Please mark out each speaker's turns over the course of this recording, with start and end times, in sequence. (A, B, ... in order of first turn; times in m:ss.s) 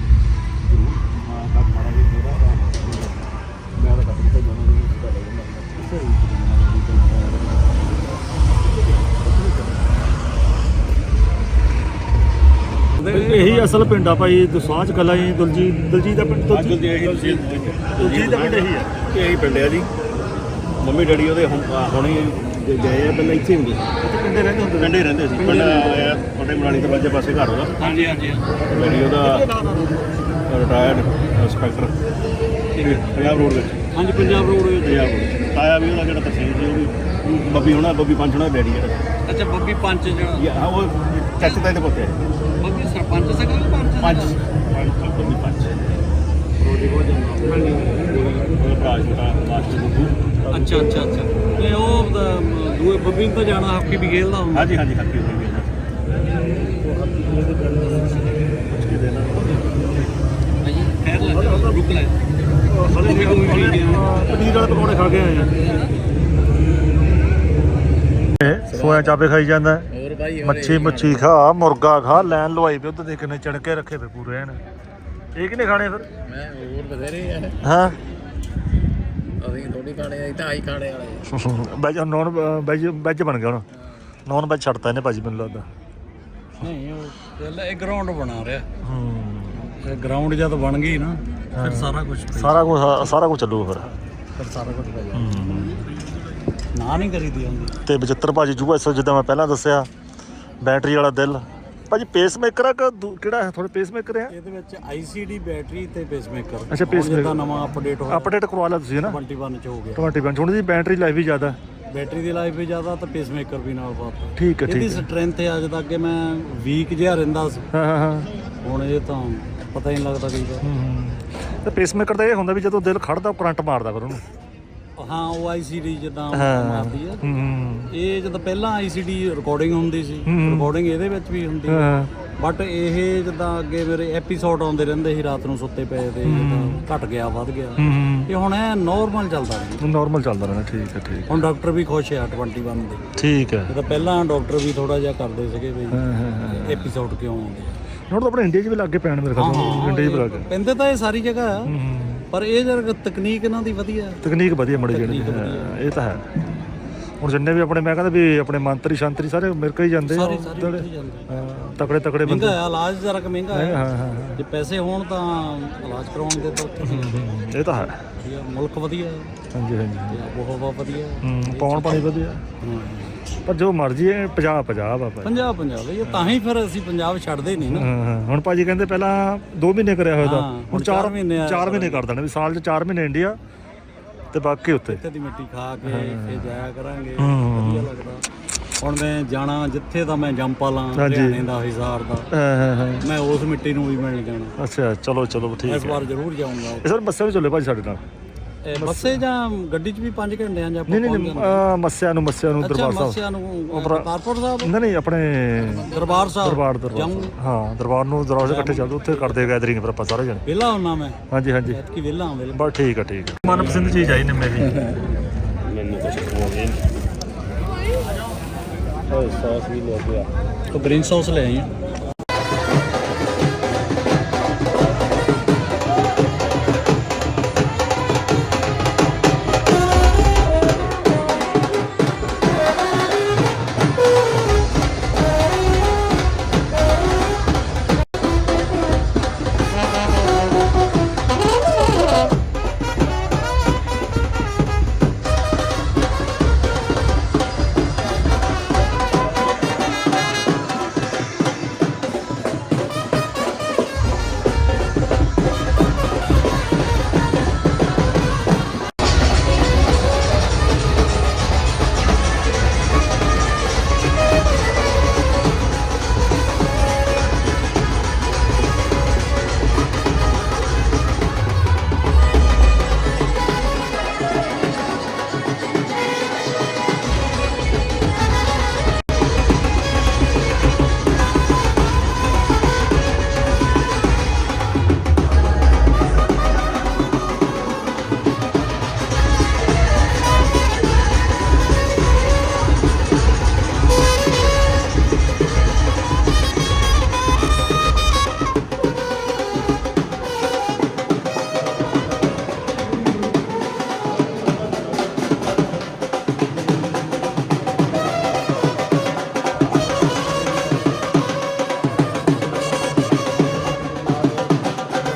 0:00.6-0:09.9 A
0:13.0-0:13.7 B
0:13.0-0:17.4 C
0:16.5-0:19.9 A
0:18.0-0:18.9 C
0:20.8-0:23.9 A
0:24.0-0:26.0 C
0:24.8-0:27.9 A
0:25.4-0:25.7 B
0:27.8-0:28.5 B
0:28.6-0:29.4 A
0:28.7-0:30.1 C
0:30.5-0:32.0 A
0:32.8-0:33.0 B
0:32.8-0:39.0 A
0:33.9-0:35.0 B
0:39.2-0:40.4 B
0:40.4-0:42.2 A
0:42.6-0:44.4 B
0:44.0-0:46.0 A
0:46.6-0:48.6 B
0:48.6-0:50.9 A
0:50.5-0:54.7 B
0:54.5-0:55.9 A
0:56.8-0:58.2 B
0:58.7-0:59.9 C
1:00.6-1:00.9 D
1:01.0-1:02.1 B
1:01.3-1:01.8 C
1:02.7-1:05.5 C
1:02.9-1:04.1 B
1:08.4-1:09.8 C
1:08.7-1:09.2 D
1:09.9-1:11.3 D
1:10.4-1:14.6 C
1:15.3-1:16.0 C
1:16.2-1:17.6 D
1:17.6-1:18.0 C
1:19.4-1:21.3 D
1:21.3-1:23.6 C
1:24.3-1:25.7 C
1:26.6-1:28.7 B
1:28.8-1:29.6 C
1:29.6-1:32.7 B
1:31.6-1:33.9 C
1:34.4-1:35.8 B
1:35.1-1:35.8 C
1:36.7-1:37.8 B
1:37.8-1:39.9 C
1:40.6-1:44.3 C
1:44.3-1:48.4 B
1:46.7-1:49.2 C
1:49.0-1:50.1 B
1:50.0-1:51.6 C
1:51.9-1:57.6 B
1:54.4-1:55.0 C
1:57.7-1:58.3 C
1:58.6-2:00.6 B
2:00.6-2:04.2 C
2:05.0-2:07.2 B
2:06.3-2:07.9 C
2:07.9-2:11.9 B
2:10.2-2:10.7 C
2:11.7-2:12.1 C
2:12.4-2:19.8 B
2:16.2-2:16.8 C
2:17.8-2:18.3 C
2:19.8-2:21.4 C
2:21.3-2:23.0 B
2:23.2-2:23.8 C
2:23.7-2:26.0 B
2:25.9-2:26.9 C
2:26.6-2:27.7 B
2:28.1-2:30.4 C
2:29.3-2:31.7 B
2:31.6-2:32.2 C
2:32.3-2:34.2 B
2:34.2-2:36.7 C
2:34.9-2:35.7 B
2:37.2-2:42.6 C
2:40.0-2:41.3 B
2:42.2-2:43.8 B
2:43.5-2:44.4 C
2:44.4-2:47.3 B
2:46.8-2:48.0 C
2:48.2-2:49.3 B
2:49.5-2:50.2 C
2:50.1-2:53.2 B
2:51.2-2:52.4 C
2:53.4-2:55.5 C
2:55.2-2:57.9 B
2:56.0-2:56.4 C
2:57.6-3:03.4 C
3:00.2-3:02.0 B
3:04.3-3:05.0 C
3:04.9-3:08.2 B
3:05.8-3:06.6 C
3:07.2-3:07.9 C
3:08.8-3:12.3 B
3:10.9-3:11.4 C
3:12.3-3:13.0 C
3:13.0-3:14.5 B
3:14.6-3:16.1 C
3:15.6-3:16.9 B
3:16.8-3:18.0 C
3:18.6-3:21.6 B
3:18.7-3:19.2 C
3:20.9-3:24.1 C
3:22.6-3:24.7 B
3:24.6-3:25.9 C
3:25.6-3:26.3 D
3:25.8-3:27.3 B
3:26.4-3:30.4 C
3:28.4-3:29.5 B
3:30.4-3:32.6 B
3:31.3-3:31.8 C
3:32.5-3:34.8 C
3:33.5-3:35.1 A
3:34.6-3:34.9 D
3:35.6-3:36.9 A
3:39.1-3:40.3 A
3:40.7-3:41.7 B